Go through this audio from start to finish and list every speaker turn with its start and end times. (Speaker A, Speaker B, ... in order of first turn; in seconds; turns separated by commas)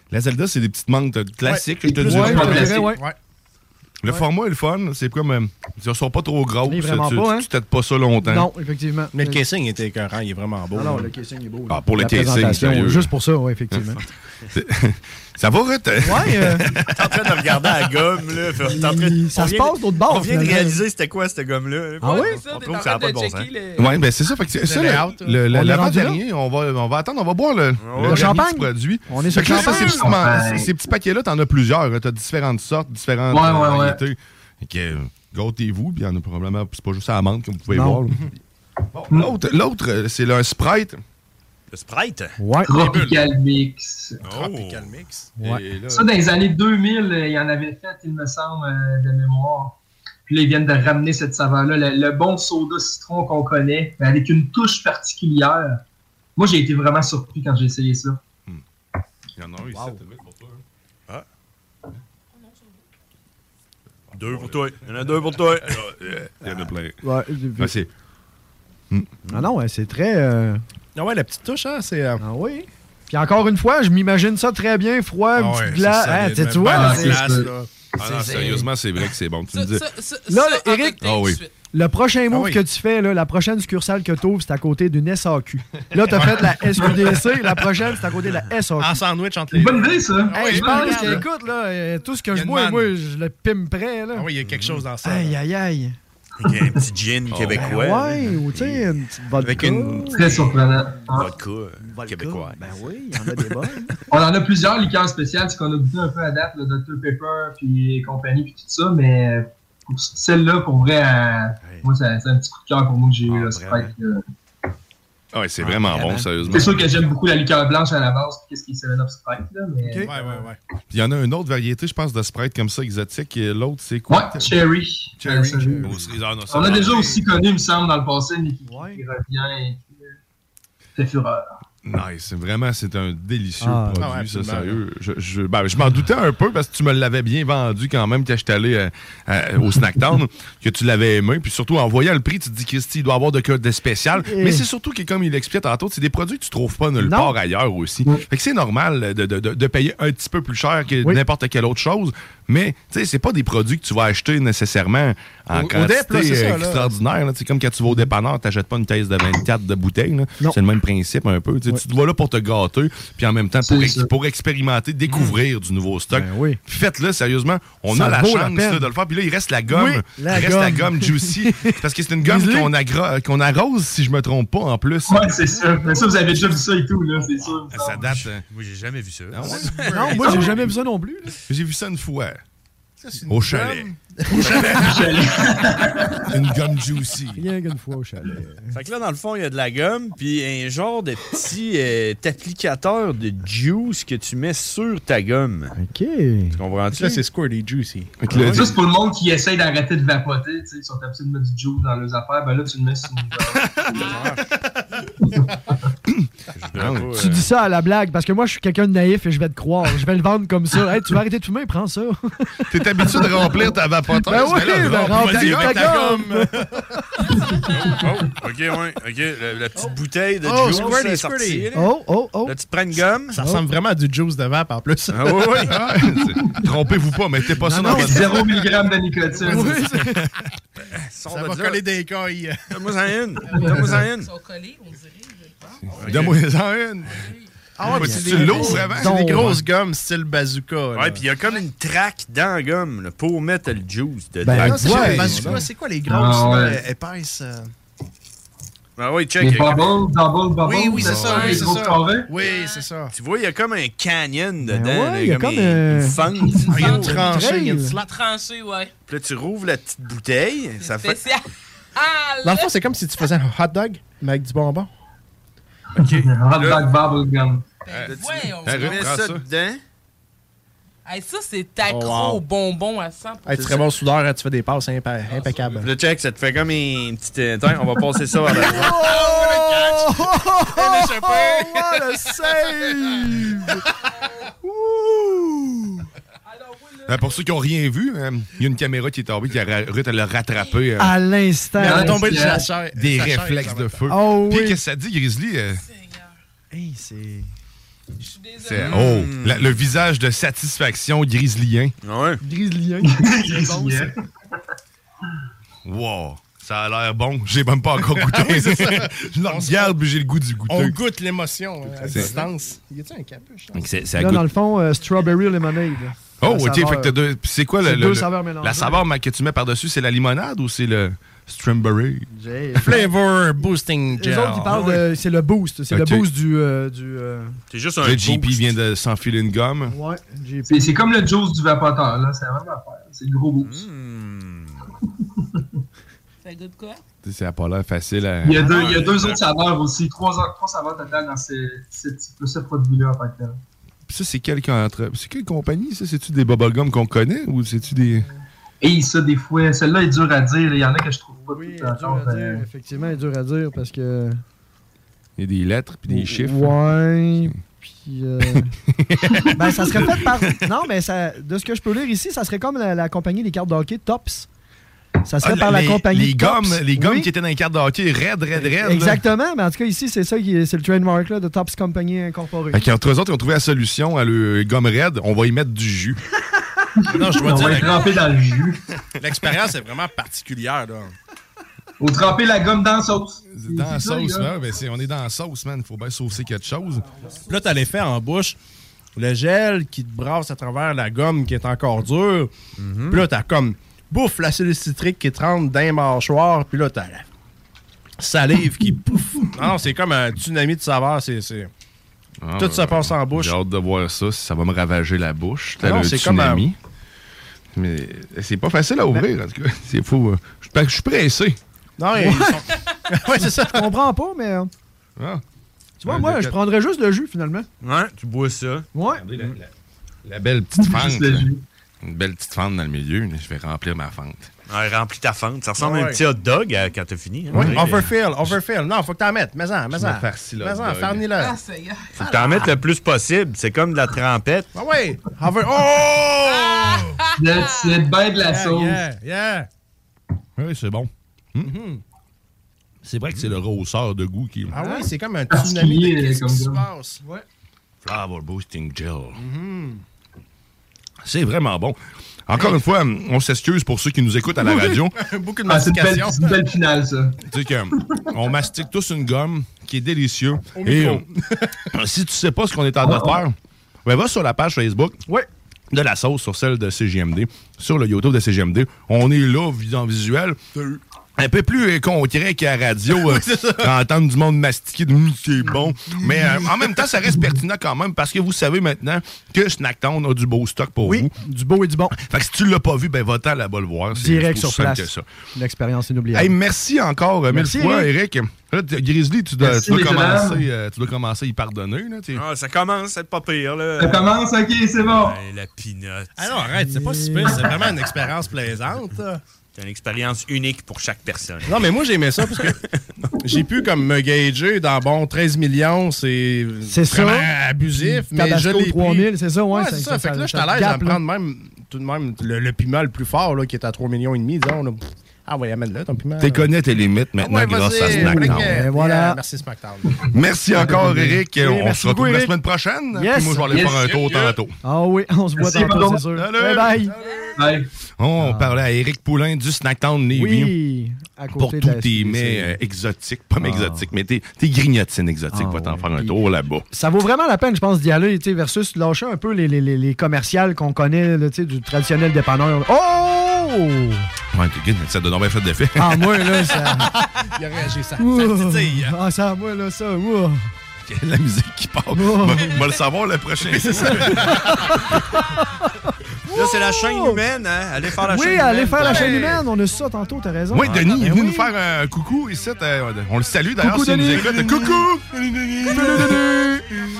Speaker A: 0.1-2.8, Speaker B: 1.4-3.1, Speaker C: 2.0-3.0, Speaker D: 2.0-2.8, Speaker A: 4.0-8.5, Speaker C: 6.7-7.5, Speaker C: 8.2-9.4, Speaker B: 9.1-11.1, Speaker C: 10.7-14.0, Speaker A: 11.7-13.1, Speaker A: 14.5-17.1, Speaker C: 16.0-16.6, Speaker E: 16.9-23.5, Speaker C: 18.6-20.8, Speaker C: 22.0-22.4, Speaker F: 22.0-23.9, Speaker A: 23.8-38.2, Speaker B: 24.6-25.3, Speaker C: 25.5-26.2, Speaker E: 27.8-28.3, Speaker C: 28.0-30.2, Speaker D: 29.5-30.7, Speaker D: 33.3-34.0, Speaker C: 37.7-38.0, Speaker A: 38.9-41.0, Speaker E: 41.7-42.4, Speaker C: 42.4-42.7, Speaker D: 42.6-44.2, Speaker B: 42.7-43.2, Speaker B: 44.2-45.3, Speaker E: 44.2-44.9, Speaker A: 45.4-46.1, Speaker D: 45.9-55.8, Speaker D: 56.4-58.2, Speaker A: 59.4-60.6, Speaker C: 59.7-60.0, Speaker F: 62.3-62.9, Speaker E: 64.1-65.8, Speaker A: 64.2-64.6, Speaker A: 65.7-67.0, Speaker C: 67.0-67.7, Speaker A: 67.6-67.9, Speaker C: 69.3-70.6, Speaker B: 70.9-72.2, Speaker C: 72.2-77.2, Speaker B: 75.3-77.7, Speaker D: 76.7-77.5, Speaker A: 78.0-79.9, Speaker C: 78.0-78.6, Speaker E: 78.1-78.4, Speaker F: 79.5-81.5, Speaker C: 80.3-81.0, Speaker A: 81.0-81.4, Speaker C: 81.7-89.0, Speaker B: 82.3-82.6, Speaker B: 86.1-87.1, Speaker B: 88.8-91.2, Speaker D: 89.5-91.2, Speaker C: 90.3-94.3, Speaker B: 92.3-92.9, Speaker B: 94.1-95.4, Speaker E: 94.4-94.8, Speaker C: 95.0-95.9, Speaker E: 96.4-98.8, Speaker A: 97.3-97.7, Speaker C: 97.5-101.3, Speaker E: 99.4-100.5, Speaker D: 100.1-101.3, Speaker E: 101.1-102.7, Speaker C: 101.8-103.9, Speaker D: 104.1-114.2, Speaker A: 115.3-116.9, Speaker C: 115.6-116.7, Speaker D: 116.5-120.4, Speaker C: 119.8-120.1, Speaker B: 120.0-120.6, Speaker A: 120.9-124.5, Speaker D: 124.1-125.8, Speaker A: 125.2-127.3, Speaker C: 125.5-125.9, Speaker D: 126.5-130.1, Speaker C: 128.6-129.0, Speaker D: 130.9-131.5, Speaker A: 131.8-175.3, Speaker C: 133.6-134.1, Speaker B: 134.0-134.8, Speaker C: 144.2-144.6, Speaker C: 147.0-147.3, Speaker B: 155.5-156.9, Speaker D: 163.6-164.1, Speaker E: 165.1-165.3, Speaker C: 166.1-166.6, Speaker C: 167.9-168.9, Speaker C: 169.7-172.7, Speaker D: 175.1-178.1, Speaker C: 175.4-176.6, Speaker B: 177.2-177.5, Speaker A: 177.7-178.4, Speaker E: 178.0-180.2, Speaker A: 179.3-180.2, Speaker B: 179.4-180.7, Speaker C: 179.8-181.3, Speaker A: 181.5-182.4, Speaker B: 183.0-185.2, Speaker A: 183.3-183.9, Speaker D: 184.7-186.3, Speaker A: 186.2-187.4, Speaker C: 187.3-188.7, Speaker E: 188.7-195.7, Speaker C: 195.8-197.2, Speaker E: 196.6-197.0, Speaker B: 196.9-198.6, Speaker A: 198.2-198.8, Speaker E: 198.3-198.6, Speaker D: 198.5-204.1, Speaker B: 203.9-204.4, Speaker D: 205.2-205.5, Speaker A: 206.1-207.3, Speaker E: 206.5-207.4, Speaker C: 207.1-212.6, Speaker A: 212.7-215.9, Speaker D: 213.1-213.4, Speaker C: 214.2-216.4, Speaker B: 214.8-216.7, Speaker E: 217.7-221.9, Speaker B: 220.4-221.7, Speaker C: 221.7-222.5, Speaker E: 222.4-223.4, Speaker B: 223.3-225.7, Speaker C: 223.4-223.6, Speaker E: 225.1-225.7, Speaker A: 225.7-228.6, Speaker C: 227.6-228.4, Speaker D: 227.9-229.8, Speaker C: 229.4-230.2, Speaker B: 229.4-229.8, Speaker E: 230.9-231.8, Speaker B: 231.2-232.6, Speaker E: 232.7-234.3, Speaker B: 233.5-234.0, Speaker F: 234.1-235.8, Speaker A: 235.9-237.2, Speaker E: 235.9-236.4, Speaker F: 237.1-237.4, Speaker B: 237.8-241.2, Speaker C: 237.8-239.6, Speaker A: 237.8-239.6, Speaker E: 240.9-245.2, Speaker C: 244.4-245.6, Speaker B: 244.5-247.7, Speaker A: 244.9-245.6, Speaker D: 246.1-246.8, Speaker E: 249.0-250.0, Speaker D: 249.4-252.3, Speaker B: 250.6-253.1, Speaker A: 251.0-251.4, Speaker F: 251.1-251.8, Speaker F: 252.4-252.9, Speaker E: 253.1-257.0, Speaker C: 254.6-256.2, Speaker F: 256.4-258.9, Speaker B: 256.7-258.1, Speaker C: 257.0-257.9, Speaker E: 259.1-261.2, Speaker F: 260.8-262.7, Speaker B: 262.4-264.9, Speaker E: 266.0-266.7, Speaker D: 266.0-267.7, Speaker F: 267.8-269.0, Speaker A: 267.9-269.4, Speaker E: 268.0-269.8, Speaker F: 271.0-273.9, Speaker B: 271.8-272.4, Speaker B: 273.4-275.9, Speaker E: 275.8-279.0, Speaker B: 278.5-282.0, Speaker C: 278.6-283.8, Speaker C: 284.6-286.0, Speaker F: 286.4-287.4, Speaker A: 287.1-291.1, Speaker C: 291.0-292.6, Speaker D: 291.8-292.7, Speaker B: 291.8-294.0, Speaker A: 292.9-295.8, Speaker C: 294.1-294.8, Speaker F: 295.8-296.3, Speaker C: 296.7-297.5, Speaker F: 298.2-299.0, Speaker A: 298.6-301.9, Speaker E: 298.8-299.8, Speaker E: 302.0-302.4, Speaker C: 302.4-304.1, Speaker D: 303.0-304.1, Speaker A: 305.8-311.0, Speaker B: 308.2-309.9, Speaker B: 310.7-313.8, Speaker A: 312.0-312.4, Speaker C: 312.1-312.4, Speaker A: 313.7-314.5, Speaker C: 314.2-317.1, Speaker A: 316.4-322.3, Speaker C: 317.8-319.0, Speaker C: 322.3-323.1, Speaker B: 322.8-325.0, Speaker C: 324.2-327.5, Speaker A: 325.9-326.3, Speaker E: 327.7-328.7, Speaker A: 328.0-329.9, Speaker C: 329.9-331.1, Speaker D: 330.7-333.8, Speaker E: 333.6-334.8, Speaker F: 336.4-337.0, Speaker A: 337.2-339.3, Speaker D: 338.4-343.6, Speaker E: 338.6-339.4, Speaker A: 344.1-348.3, Speaker D: 348.8-352.6, Speaker C: 351.3-354.4, Speaker A: 355.4-356.8, Speaker C: 356.1-358.7, Speaker A: 358.9-360.6, Speaker C: 359.5-364.5, Speaker C: 365.2-367.3, Speaker A: 365.4-369.2, Speaker C: 368.6-372.8, Speaker A: 372.7-376.2, Speaker D: 377.0-378.8, Speaker B: 377.1-378.1, Speaker B: 379.2-381.1, Speaker D: 382.0-384.5, Speaker A: 383.5-387.1, Speaker B: 387.4-388.6, Speaker B: 389.1-392.5, Speaker E: 392.8-393.2, Speaker B: 393.1-397.2, Speaker B: 398.2-401.7, Speaker A: 402.4-406.8, Speaker B: 402.6-403.5, Speaker B: 405.8-406.6, Speaker A: 407.7-411.6, Speaker B: 412.0-413.9, Speaker C: 412.2-412.6, Speaker C: 413.4-414.7, Speaker A: 415.2-415.4, Speaker C: 416.0-417.6, Speaker A: 416.0-416.6, Speaker E: 417.8-419.5, Speaker C: 418.9-419.2, Speaker A: 419.1-419.7, Speaker A: 420.2-421.5, Speaker D: 420.8-421.6, Speaker A: 422.0-424.5, Speaker E: 424.7-428.1, Speaker B: 425.8-426.2, Speaker B: 427.5-431.5, Speaker A: 429.9-431.3, Speaker F: 431.4-432.2, Speaker E: 432.2-434.7, Speaker B: 432.2-432.6, Speaker B: 434.7-437.1, Speaker F: 436.4-438.1, Speaker D: 437.4-439.0, Speaker B: 438.4-439.7, Speaker A: 440.6-441.7, Speaker B: 441.6-442.0, Speaker A: 443.0-444.7, Speaker B: 444.7-447.2, Speaker C: 444.7-445.1, Speaker D: 445.5-446.8, Speaker A: 448.0-449.4, Speaker B: 449.4-450.0, Speaker A: 451.2-455.1, Speaker B: 454.6-456.7, Speaker D: 455.7-457.4, Speaker A: 457.5-461.2, Speaker B: 460.7-461.7, Speaker A: 461.9-465.2, Speaker D: 463.0-463.4, Speaker A: 465.9-470.6, Speaker A: 471.4-481.3, Speaker B: 473.1-473.9, Speaker B: 476.3-476.9, Speaker C: 481.0-482.1, Speaker A: 482.1-485.2, Speaker C: 484.1-486.5, Speaker A: 486.3-492.4, Speaker C: 487.5-488.1, Speaker D: 489.6-490.7, Speaker E: 492.3-494.3, Speaker D: 494.0-495.3, Speaker E: 495.1-496.7, Speaker B: 496.4-499.4, Speaker C: 496.8-497.6, Speaker E: 499.7-501.9, Speaker B: 501.6-502.8, Speaker B: 503.4-516.7, Speaker C: 506.9-511.2, Speaker A: 516.4-518.8, Speaker B: 517.4-520.1, Speaker C: 518.0-519.4, Speaker A: 520.3-524.7, Speaker C: 520.8-522.5, Speaker C: 523.1-523.9, Speaker D: 523.7-524.2, Speaker B: 524.0-524.6, Speaker C: 524.8-527.1, Speaker D: 525.6-526.2, Speaker A: 526.3-527.0, Speaker B: 527.1-527.7, Speaker F: 527.2-527.6, Speaker D: 527.5-527.9, Speaker A: 528.2-530.7, Speaker C: 528.4-528.8, Speaker C: 530.3-532.7, Speaker A: 531.5-536.9, Speaker C: 533.6-534.1, Speaker C: 535.5-536.3, Speaker C: 536.9-544.2, Speaker A: 544.5-546.4, Speaker C: 546.0-547.1, Speaker B: 547.2-549.1, Speaker C: 548.2-550.7, Speaker A: 551.0-554.6, Speaker C: 552.1-552.7, Speaker B: 553.7-554.7, Speaker C: 554.2-557.4, Speaker E: 556.5-559.5, Speaker C: 558.3-561.7, Speaker B: 559.0-559.6, Speaker A: 560.7-565.2, Speaker C: 563.8-564.6, Speaker B: 564.3-566.4, Speaker C: 565.9-566.9